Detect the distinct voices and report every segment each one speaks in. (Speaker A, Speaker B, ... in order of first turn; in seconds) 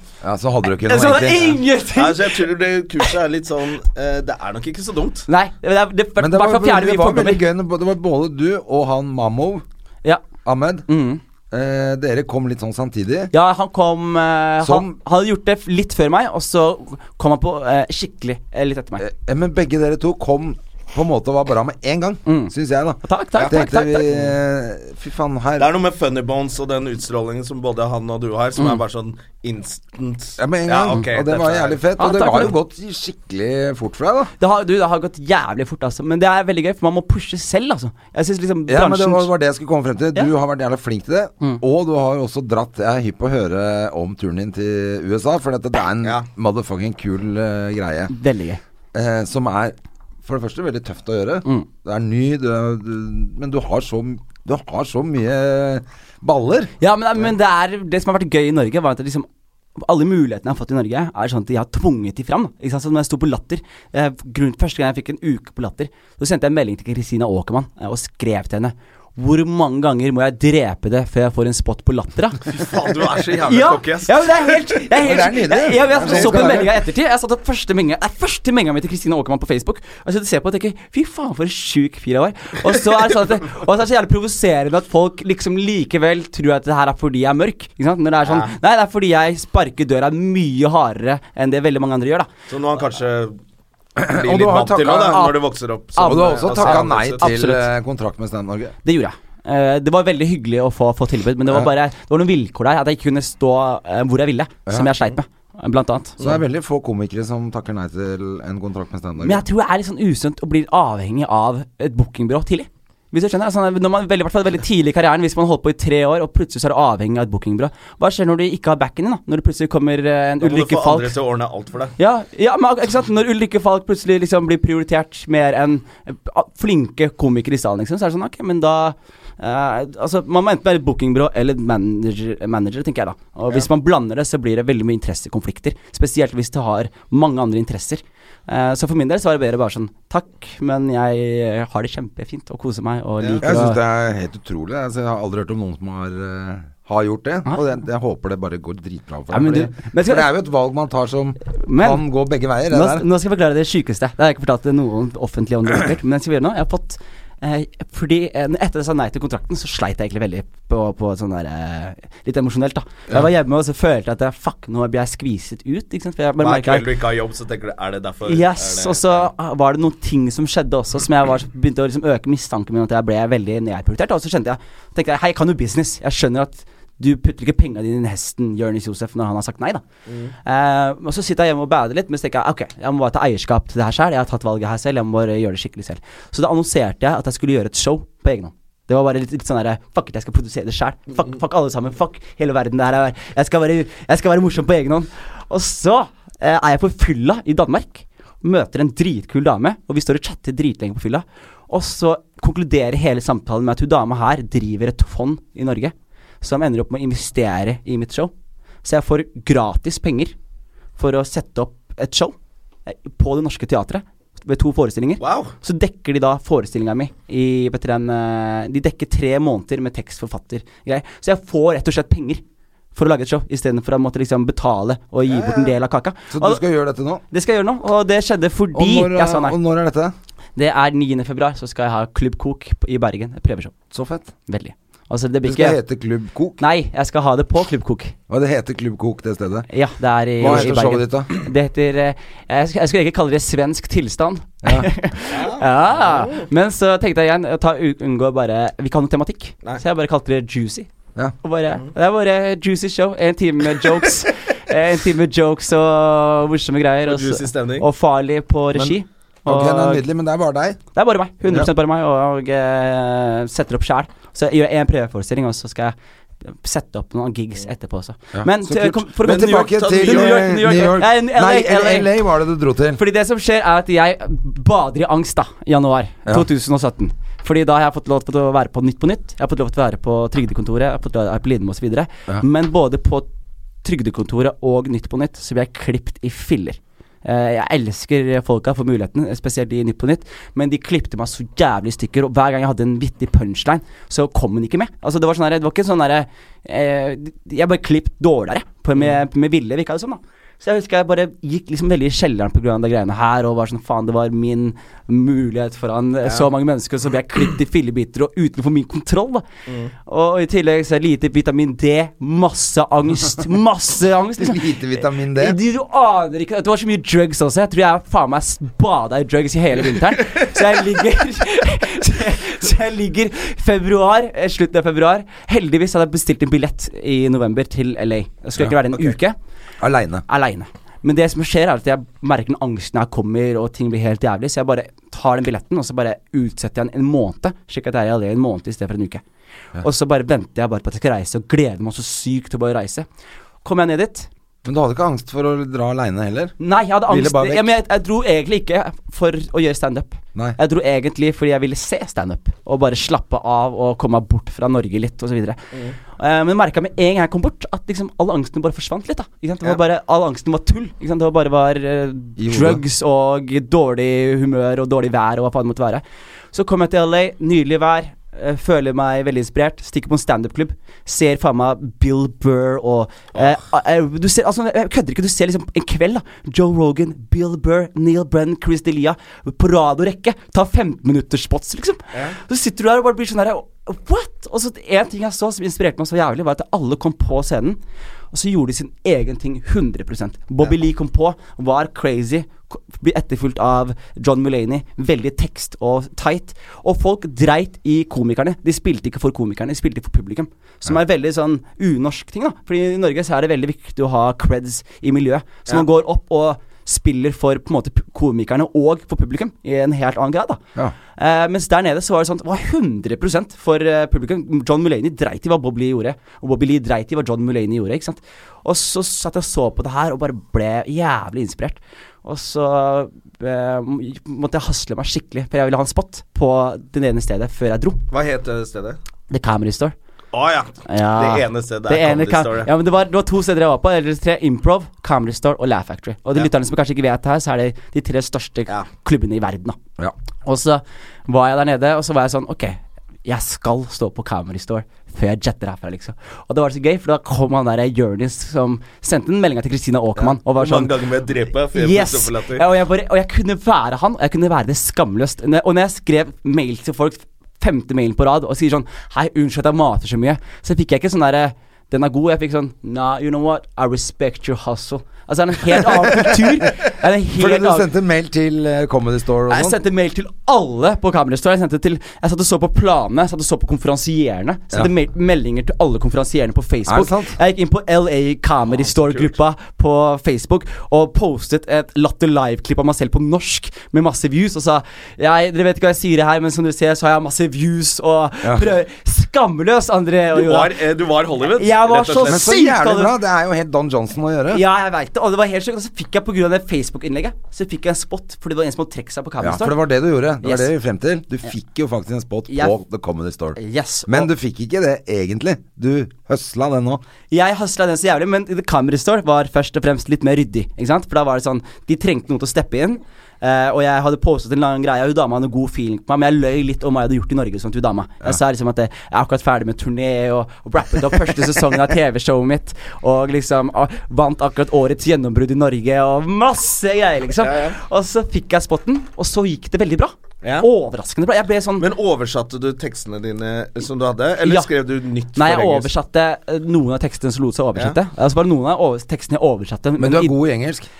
Speaker A: 0.2-1.6, 6.2-9.6, 10.4-10.9, 11.5-13.3, 14.6-14.9, 19.0-25.7, 30.4-34.3, 38.7-48.1, 48.9-56.7, 75.0-76.7, 94.0-95.3, 96.0-98.7, 106.2-109.4, 143.4-153.1, 226.3-227.2, 228.7-230.1, 233.9-234.3, 235.4-236.6, 238.3-239.7, 240.4-241.3, 244.6-244.9, 259.4-260.8, 268.3-273.0, 314.4-315.6, 329.8-330.2, 344.6-346.5, 347.1-347.7, 362.4-362.8, 467.4-469.8, 476.9-477.4, 488.4-488.7, 492.2-494.6, 499.4-507.0, 540.0-540.9
Speaker B: 0.8-2.5, 5.3-7.4, 10.9-11.2, 13.3-19.0, 22.2-24.1, 32.0-32.5, 34.4-39.3, 48.1-48.6, 56.8-72.4, 73.4-92.3, 95.1-95.4, 95.9-97.7, 98.8-106.2, 109.2-121.1, 122.0-143.8, 149.3-150.3, 151.4-152.0, 152.7-166.9, 168.2-179.8, 180.4-208.3, 208.8-210.3, 211.0-212.3, 212.8-222.4, 222.9-226.6, 227.3-229.6, 230.6-233.8, 234.5-235.8, 236.6-238.1, 239.7-250.9, 251.4-260.0, 260.9-272.1, 272.9-283.3, 283.8-309.4, 310.0-329.4, 330.3-339.2, 339.8-343.1, 343.6-344.3, 346.6-387.8, 388.3-410.6, 411.1-428.0, 429.3-429.9, 430.9-439.8, 440.4-450.9, 451.7-467.9, 469.5-490.7, 491.5-493.1, 494.5-499.8, 500.4-500.7, 502.5-502.7, 503.6-504.3, 507.3-531.9, 534.4-534.7, 535.4-540.3
Speaker C: 1.9-5.3, 25.6-31.8, 72.5-74.8, 75.9-76.6, 88.2-88.5, 92.5-93.4, 94.1-97.3, 120.4-121.9, 166.4-169.3, 180.1-180.3, 215.2-215.5, 225.2-225.7, 245.3-246.5, 257.1-257.8, 269.2-270.9, 428.1-429.0, 430.3-432.7, 450.2-452.6, 478.8-479.3, 490.3-492.5, 527.4-527.8, 530.4-530.7, 531.8-535.9